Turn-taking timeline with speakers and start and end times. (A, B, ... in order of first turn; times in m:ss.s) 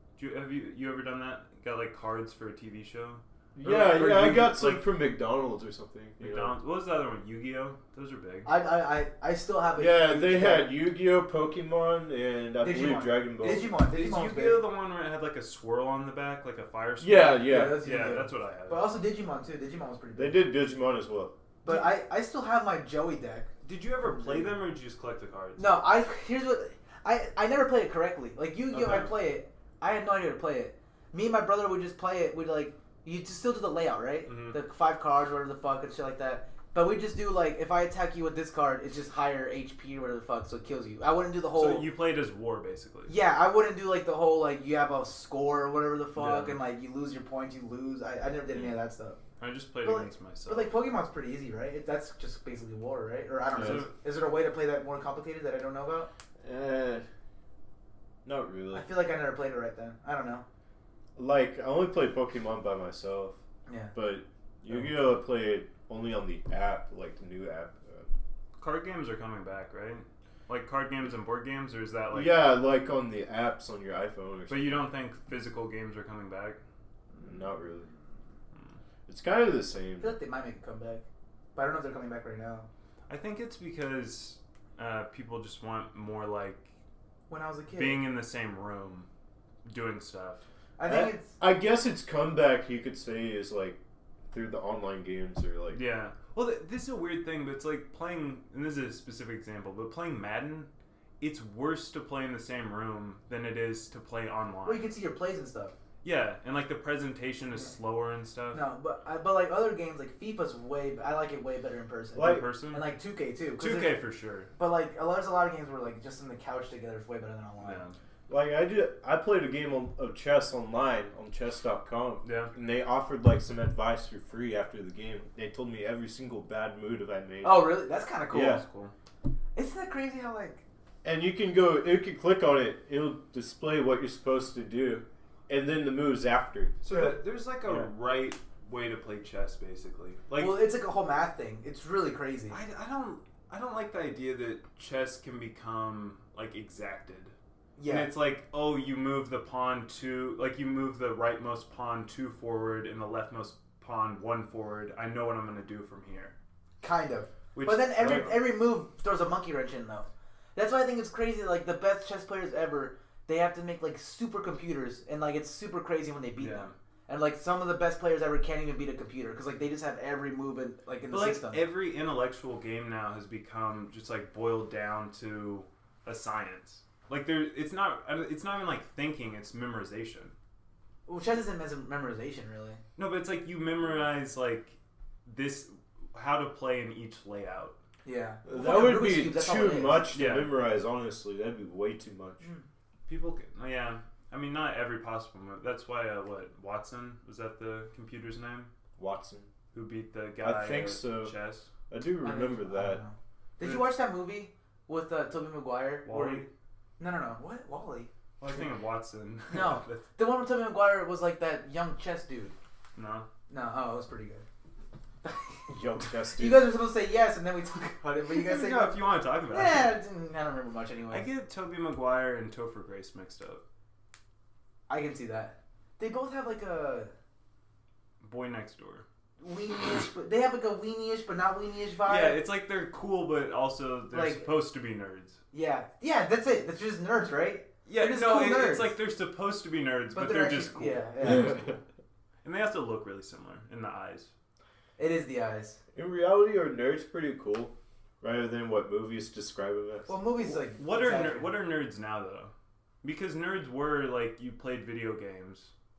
0:00.2-0:04.8 A
0:03.5-0:06.6 B
0:06.2-0:08.5 A
0:08.4-0:10.7 C
0:09.8-0:13.7 B
0:12.6-0:14.6 C
0:13.7-0:18.9 A
0:17.0-0:17.8 B
0:17.4-0:20.4 C
0:20.2-0:21.3 B
0:21.6-0:23.5 C
0:23.6-0:25.7 A
0:24.0-0:24.6 C
0:25.6-0:41.9 C
0:28.7-0:29.1 A
0:34.2-0:34.6 A
0:41.5-0:43.1 A
0:43.1-0:49.2 C
0:46.2-0:46.6 A
0:49.4-0:50.7 A
0:49.8-0:56.1 C
0:53.5-0:53.9 A
0:53.5-0:53.8 B
0:56.4-0:57.1 B
0:58.2-0:58.9 B
0:58.7-1:00.4 C
1:01.2-1:03.4 B
1:03.7-1:03.9 C
1:03.9-1:08.1 B
1:08.6-1:12.4 A
1:12.1-1:14.8 B
1:14.5-1:16.6 A
1:17.2-1:17.9 B
1:19.1-1:20.2 B
1:20.0-1:21.0 C
1:21.5-1:22.7 C
1:23.1-1:26.7 A
1:27.3-1:28.0 C
1:27.7-1:29.1 A
1:29.6-1:30.4 A
1:30.8-1:31.4 C
1:30.8-1:33.8 B
1:34.3-1:35.8 B
1:35.7-1:40.7 A
1:41.2-1:44.9 A
1:44.6-1:45.7 C
1:46.0-1:48.6 A
1:48.5-1:54.0 C
1:52.1-1:52.9 A
1:52.2-1:52.4 B
1:53.6-1:54.5 A
1:54.6-1:57.8 C
1:57.6-1:58.0 A
1:58.3-2:07.8 B
2:02.2-2:02.5 A
2:07.4-2:08.6 C
2:08.3-2:08.6 B
2:08.4-2:08.9 A
2:09.6-2:10.6 C
2:11.0-2:16.8 B
2:16.8-2:20.6 A
2:20.4-2:22.6 C
2:22.5-2:27.3 A
2:27.8-2:28.1 C
2:27.8-2:36.3 A
2:36.8-2:51.6 C
2:37.5-2:38.4 A
2:46.4-2:46.7 A
2:51.1-3:00.3 A
3:01.1-3:02.8 C
3:03.0-3:07.7 A
3:08.0-3:10.1 C
3:08.4-3:12.5 B
3:10.1-3:10.5 A
3:13.1-3:18.7 A
3:19.0-3:19.5 B
3:19.7-3:21.7 A
3:20.4-3:21.3 B
3:21.9-3:23.0 B
3:22.2-3:26.4 C
3:23.6-3:23.9 A
3:26.0-3:26.5 A
3:27.0-3:28.1 C
3:28.4-3:30.0 A
3:29.5-3:32.5 C
3:32.9-3:33.3 A
3:33.5-3:34.4 C
3:35.2-3:35.7 C
3:35.7-3:36.7 B
3:36.3-3:41.3 C
3:38.2-3:40.0 A
3:41.1-3:43.6 A
3:44.9-3:47.1 C
3:48.2-3:49.0 A
3:49.4-3:52.4 C
3:52.0-3:55.4 A
3:54.1-3:54.5 C
3:55.5-3:58.9 C
3:57.8-4:01.5 A
4:00.1-4:01.7 C
4:02.4-4:04.3 A
4:05.0-4:05.8 C
4:05.9-4:10.1 B
4:10.1-4:11.5 C
4:10.4-4:12.5 A
4:13.0-4:15.7 A